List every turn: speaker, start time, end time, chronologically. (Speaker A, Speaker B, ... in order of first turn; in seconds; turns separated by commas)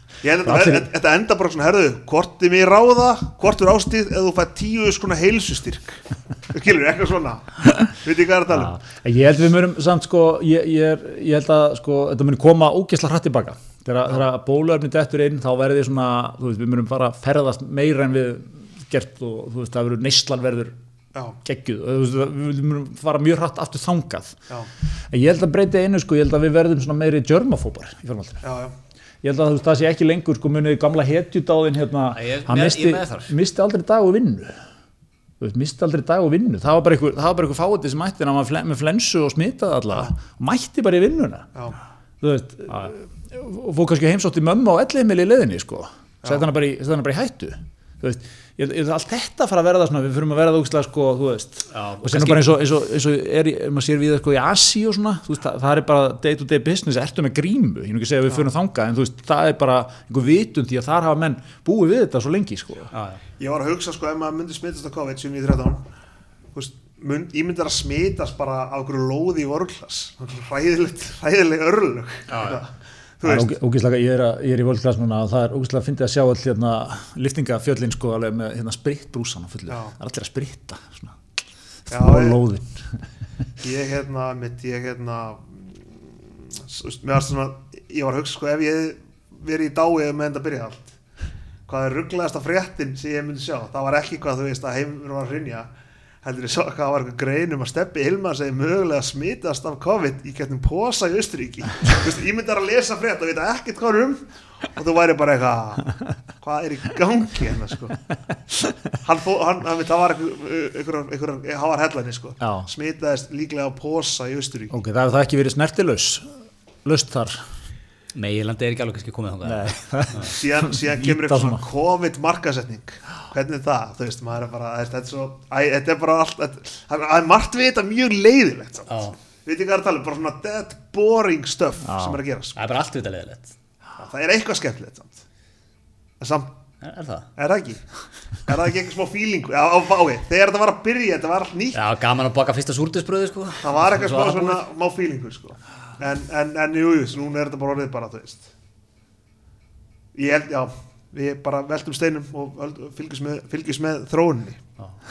Speaker A: 0.2-8.8, Speaker B: 0.5-0.9, Speaker B: 8.5-20.8, Speaker B: 21.4-24.4, Speaker B: 25.1-28.4, Speaker A: 28.4-28.7, Speaker B: 29.2-34.6, Speaker C: 32.1-33.3, Speaker B: 35.4-41.5, Speaker B: 42.2-62.9, Speaker C: 51.7-52.6, Speaker C: 62.9-63.2, Speaker A: 63.4-65.8, Speaker A: 66.5-73.5, Speaker C: 72.3-72.6, Speaker B: 73.2-81.2, Speaker A: 79.7-79.9, Speaker A: 81.9-82.4, Speaker B: 81.9-82.9, Speaker A: 83.6-86.0, Speaker A: 86.5-91.0, Speaker A: 91.7-95.7, Speaker A: 96.2-104.2, Speaker A: 104.8-108.0, Speaker A: 109.0-114.8, Speaker B: 112.4-112.7, Speaker B: 114.7-116.3, Speaker B: 116.8-117.5, Speaker C: 118.1-120.3, Speaker B: 119.4-121.7, Speaker A: 120.2-132.6, Speaker C: 128.9-129.2, Speaker B: 131.8-132.2, Speaker C: 132.6-133.5, Speaker A: 134.0-135.2, Speaker A: 136.2-136.6, Speaker C: 136.8-137.3, Speaker A: 137.4-137.8, Speaker A: 138.5-141.8, Speaker C: 141.7-144.6, Speaker A: 143.6-148.5, Speaker A: 150.2-154.6